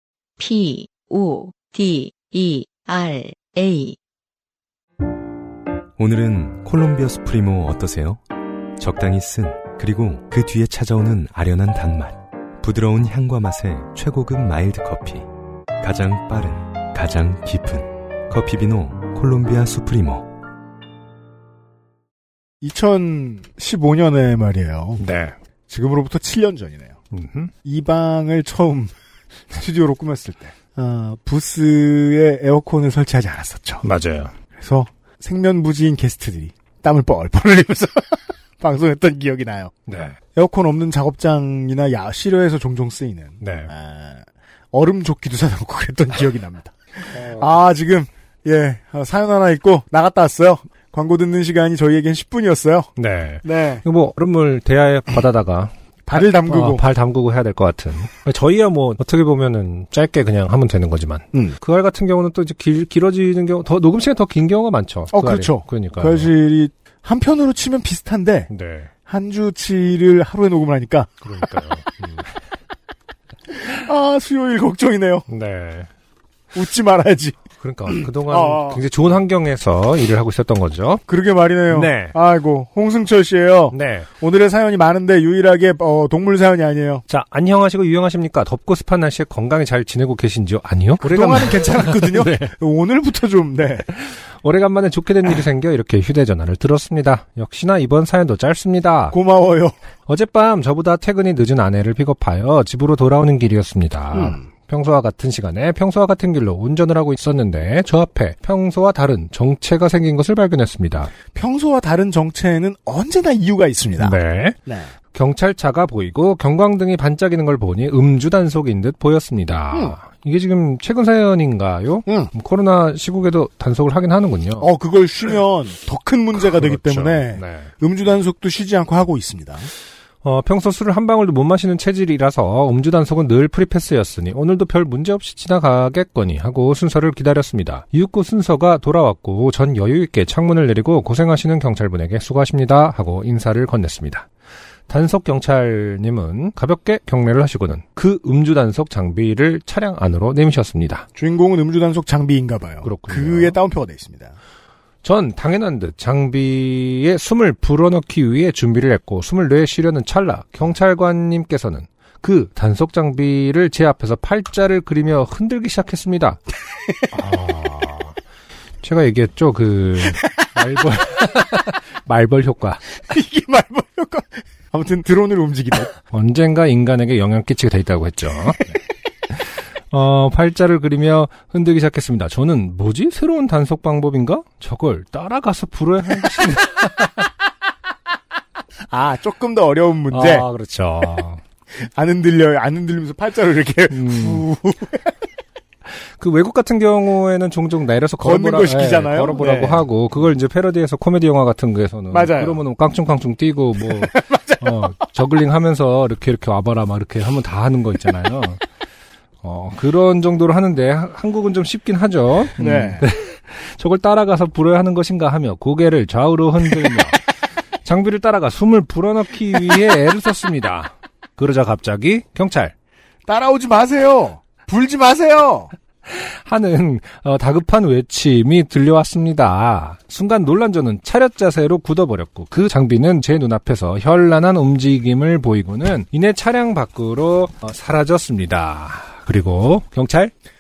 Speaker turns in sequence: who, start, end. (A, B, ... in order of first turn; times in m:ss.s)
0:00.4-0:04.0 A
0:06.0-0:08.2 B
0:08.8-0:15.3 B
0:15.8-0:20.3 B
0:22.6-0:25.0 C
0:25.0-0:25.4 D
0:25.7-0:27.0 C
0:27.1-0:27.5 D
0:27.6-0:28.9 C
0:29.5-0:33.8 C
0:33.8-0:34.3 D
0:34.6-0:39.7 C
0:39.9-0:40.2 D
0:40.4-0:52.9 C
0:43.4-0:43.7 D
0:47.1-0:47.5 D
0:53.0-1:06.3 D
0:53.4-0:53.8 C
0:56.1-0:56.8 C
1:05.1-1:08.5 C
1:08.5-1:08.9 D
1:09.1-1:11.2 C
1:11.2-1:12.4 D
1:13.5-1:15.3 C
1:15.3-1:15.9 D
1:16.5-1:18.8 C
1:17.6-1:21.0 D
1:21.1-1:27.0 C
1:21.7-1:22.2 D
1:23.7-1:24.1 D
1:27.1-1:32.5 D
1:31.0-1:33.9 C
1:33.9-1:39.2 D
1:39.1-1:39.8 C
1:40.1-1:51.1 D
1:44.1-1:44.4 C
1:51.3-1:54.9 C
1:54.0-1:54.6 D
1:55.1-2:04.7 D
2:02.1-2:02.3 C
2:04.6-2:09.7 C
2:06.4-2:07.7 D
2:10.2-2:24.3 D
2:24.9-2:31.1 D
2:31.2-2:34.4 C
2:32.8-2:33.6 D
2:35.0-2:46.4 D
2:47.1-2:48.2 D
2:48.8-2:53.0 D
2:53.1-2:55.9 C
2:56.1-2:58.8 D
2:59.3-3:07.3 D
3:08.9-3:10.5 C
3:10.1-3:11.4 D
3:11.7-3:15.1 C
3:13.9-3:14.4 D
3:16.0-3:28.6 D
3:18.2-3:19.9 C
3:22.1-3:22.6 C
3:23.8-3:24.8 C
3:29.4-3:42.7 D
3:32.6-3:33.1 C
3:43.3-3:45.7 C
3:46.1-4:00.3 D